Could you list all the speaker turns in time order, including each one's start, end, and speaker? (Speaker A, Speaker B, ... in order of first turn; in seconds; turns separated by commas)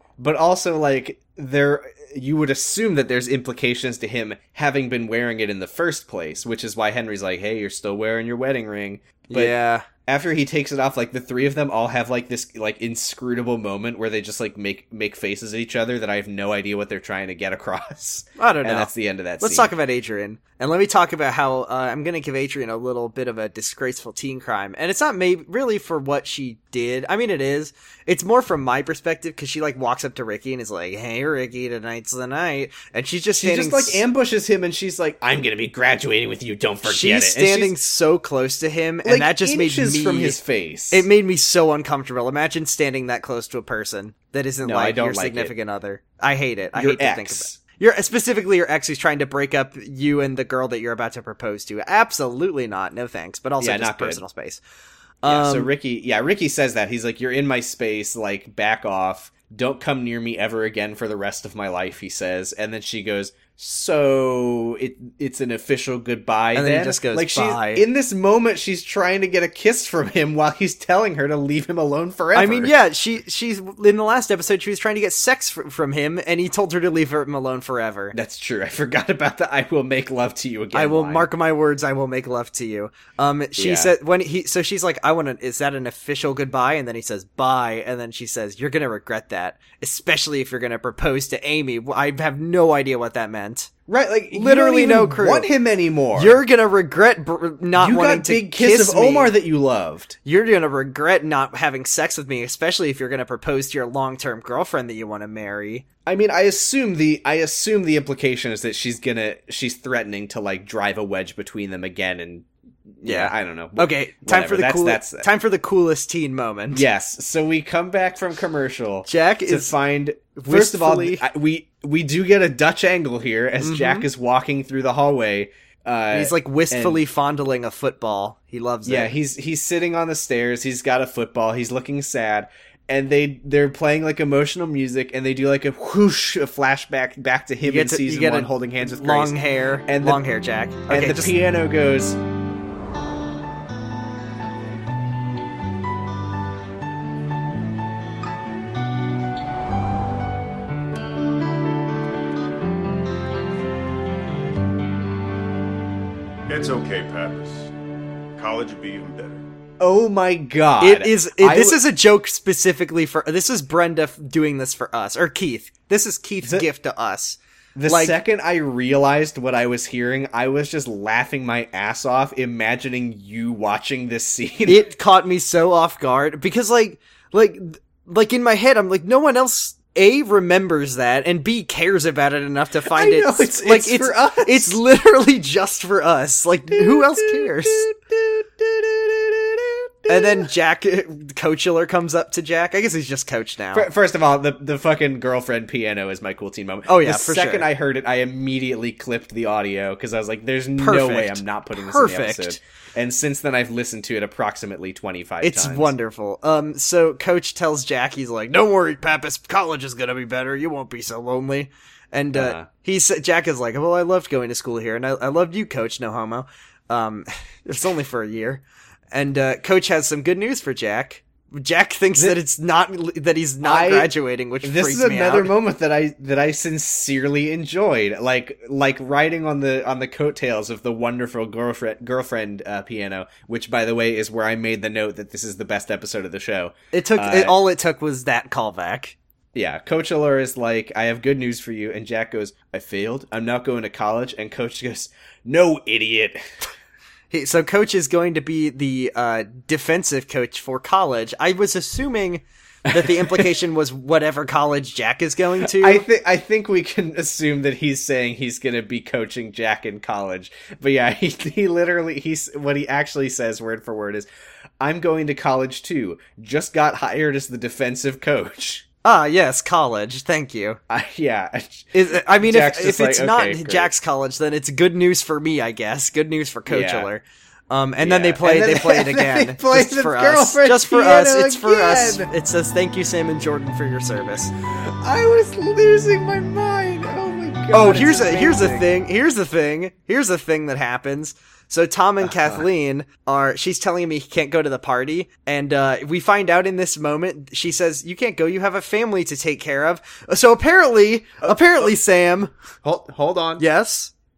Speaker A: 0.2-9.5, Speaker B: 9.3-9.9, Speaker A: 10.1-19.7, Speaker B: 18.4-34.0, Speaker A: 33.4-37.7, Speaker B: 36.8-54.6, Speaker A: 39.0-41.1, Speaker A: 44.6-45.5, Speaker A: 46.8-47.6, Speaker A: 53.6-54.2, Speaker B: 55.2-55.7, Speaker A: 55.2-72.7, Speaker B: 66.5-67.8, Speaker B: 72.3-78.2, Speaker A: 78.1-81.3, Speaker B: 80.7-93.7, Speaker A: 83.6-83.9, Speaker A: 93.9-96.4, Speaker B: 94.3-95.5, Speaker B: 96.2-99.3, Speaker A: 97.8-100.2, Speaker B: 100.2-105.9, Speaker A: 106.1-112.5, Speaker A: 113.0-115.3, Speaker B: 113.0-116.8, Speaker A: 116.7-127.0, Speaker B: 119.1-119.7, Speaker B: 120.3-121.2, Speaker B: 123.6-124.1, Speaker B: 126.1-129.1, Speaker A: 128.9-140.3, Speaker B: 137.6-141.3, Speaker A: 140.9-142.2, Speaker C: 156.5-157.7, Speaker C: 158.4-159.4, Speaker A: 159.8-161.8, Speaker B: 160.8-168.2, Speaker A: 167.8-174.9, Speaker B: 174.7-187.9, Speaker A: 182.9-184.8, Speaker A: 186.7-190.5, Speaker B: 190.1-193.9, Speaker A: 193.7-205.9, Speaker B: 196.9-197.7, Speaker B: 200.8-202.6, Speaker B: 205.4-225.5, Speaker A: 212.3-212.7, Speaker A: 223.6-237.6, Speaker B: 236.9-239.2, Speaker A: 239.5-246.4, Speaker B: 247.3-256.1, Speaker A: 252.9-253.5, Speaker A: 255.6-264.3, Speaker A: 264.8-268.9, Speaker B: 269.0-270.8, Speaker A: 270.9-273.9, Speaker B: 271.9-284.5, Speaker A: 276.7-277.1, Speaker A: 278.0-282.3, Speaker A: 284.8-288.9, Speaker B: 287.7-302.5, Speaker A: 292.2-292.6, Speaker A: 301.4-301.9, Speaker A: 302.8-303.6, Speaker B: 303.6-304.1